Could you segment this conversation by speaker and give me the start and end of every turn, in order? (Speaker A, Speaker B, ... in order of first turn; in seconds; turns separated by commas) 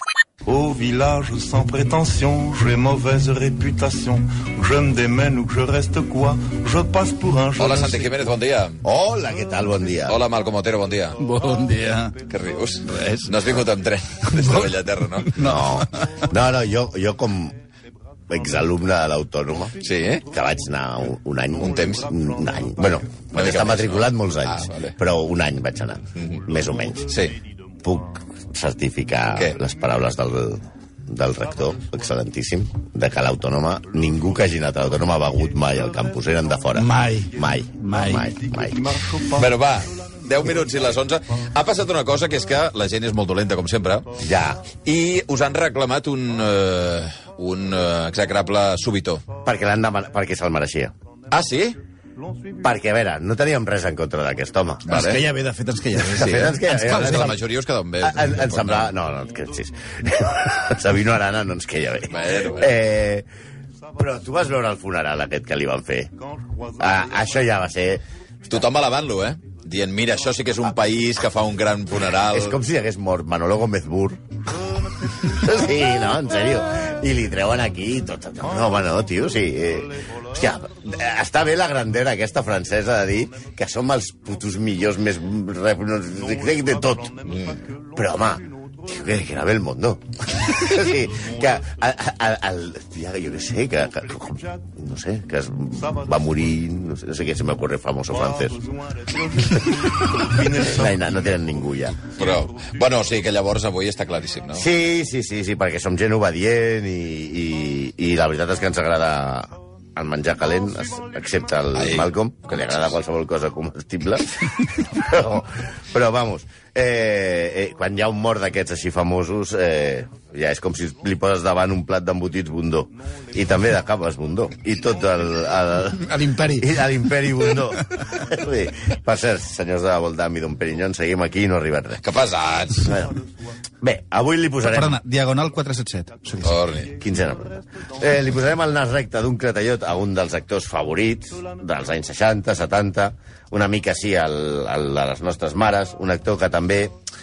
Speaker A: 0.4-8.2, Speaker B: 7.6-8.8, Speaker C: 8.8-10.2, Speaker B: 10.1-11.2, Speaker D: 11.2-12.2, Speaker B: 12.3-15.4, Speaker D: 12.8-13.3, Speaker D: 14.3-14.7, Speaker D: 15.2-16.0, Speaker C: 15.4-17.5, Speaker C: 18.3-19.7, Speaker B: 19.8-20.2, Speaker C: 20.3-27.1, Speaker B: 23.3-24.9, Speaker B: 26.2-26.4, Speaker B: 27.1-27.4, Speaker C: 27.8-38.9, Speaker D: 36.7-38.3, Speaker A: 38.7-39.4, Speaker B: 39.3-44.1, Speaker C: 44.2-44.6, Speaker B: 44.8-49.2, Speaker C: 49.4-50.9, Speaker B: 51.3-51.8, Speaker C: 52.6-54.9, Speaker B: 54.9-55.2, Speaker D: 54.9-57.3, Speaker C: 56.0-57.4, Speaker B: 56.1-58.9, Speaker C: 58.0-63.2, Speaker B: 62.1-62.7, Speaker C: 64.0-66.1, Speaker C: 66.8-68.0, Speaker B: 68.5-72.6, Speaker C: 72.3-74.2, Speaker C: 75.0-87.1, Speaker B: 87.3-87.6, Speaker C: 88.0-98.6, Speaker A: 98.3-101.1, Speaker C: 100.5-102.0, Speaker B: 102.1-104.7, Speaker C: 104.5-126.0, Speaker B: 111.7-112.9, Speaker D: 125.9-126.8, Speaker C: 126.6-132.0, Speaker B: 132.0-133.1, Speaker C: 132.9-133.2, Speaker C: 133.8-135.0, Speaker D: 134.6-136.6, Speaker B: 136.4-137.0, Speaker C: 137.0-146.9